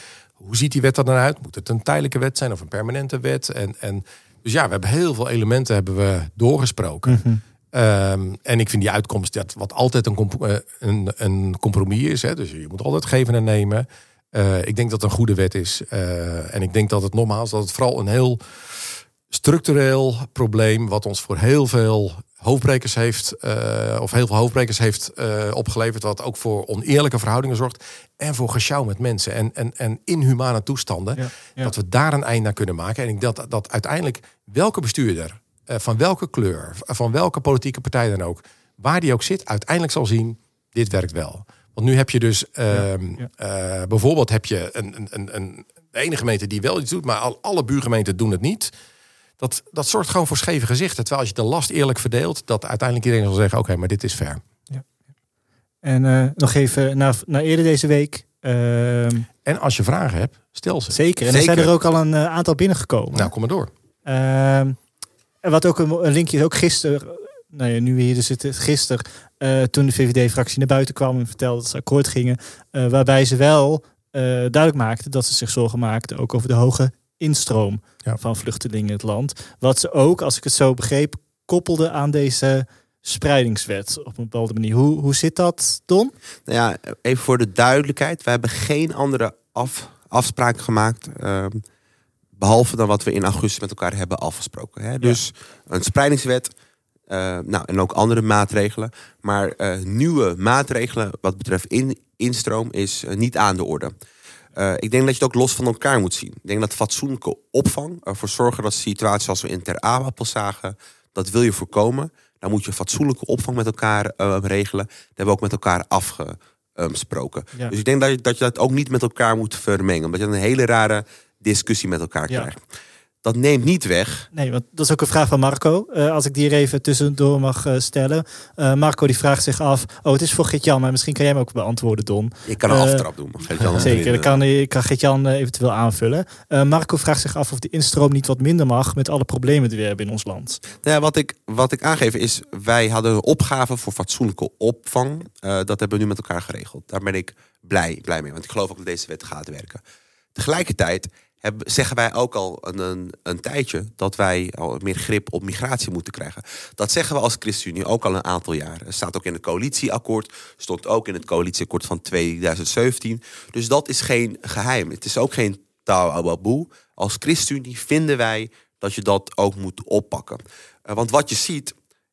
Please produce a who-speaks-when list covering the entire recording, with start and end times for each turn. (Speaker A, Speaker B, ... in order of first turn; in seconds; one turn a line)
Speaker A: 0.4-18.4
Speaker B: 7.1-7.4
Speaker A: 19.3-48.7
Speaker B: 31.2-31.7
Speaker B: 42.7-43.3
Speaker A: 49.4-54.4
Speaker B: 55.8-59.3
Speaker A: 59.5-61.0
Speaker B: 60.9-63.3
Speaker C: 61.3-61.7
Speaker A: 63.1-63.7
Speaker B: 64.0-64.8
Speaker B: 65.4-86.1
Speaker C: 86.5-91.6
Speaker C: 92.4-96.5
Speaker C: 97.1-103.9
Speaker C: 104.6-122.6
Speaker C: 123.2-124.3
Speaker B: 124.3-133.1
Speaker C: 132.5-134.4
Speaker A: 133.6-133.9
Speaker B: 133.8-140.6
Speaker C: 140.8-149.8
Speaker C: 150.3-171.8